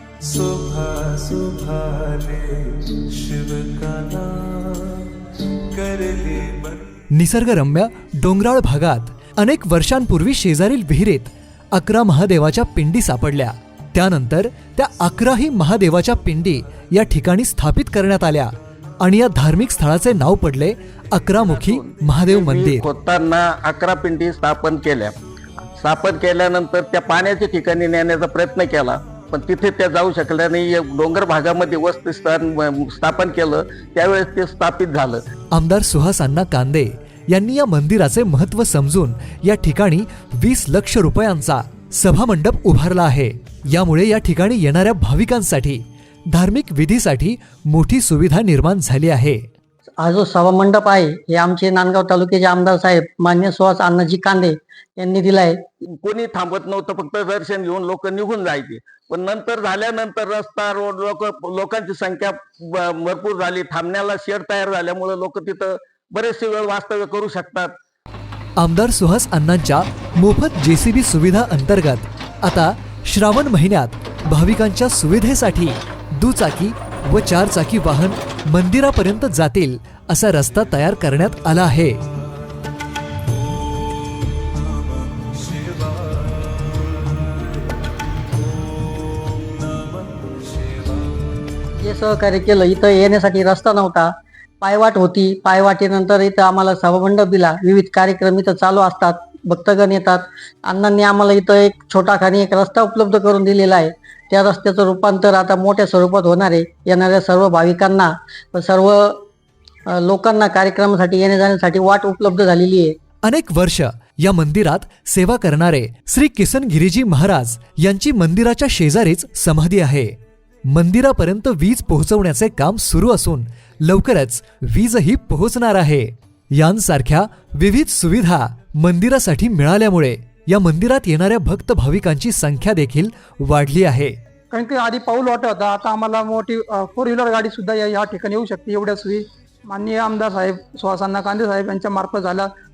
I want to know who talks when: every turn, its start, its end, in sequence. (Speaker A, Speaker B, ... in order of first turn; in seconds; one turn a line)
Speaker A: 0.2-7.0
Speaker B: 7.1-22.9
Speaker C: 21.4-35.2
Speaker B: 35.5-49.5
Speaker D: 50.0-55.6
Speaker C: 56.0-67.8
Speaker B: 68.6-82.0
Speaker A: 84.4-87.8
Speaker A: 88.7-91.2
Speaker D: 91.8-109.2
Speaker D: 109.9-113.0
Speaker B: 113.2-120.2
Speaker B: 120.7-134.2
Speaker E: 134.5-142.5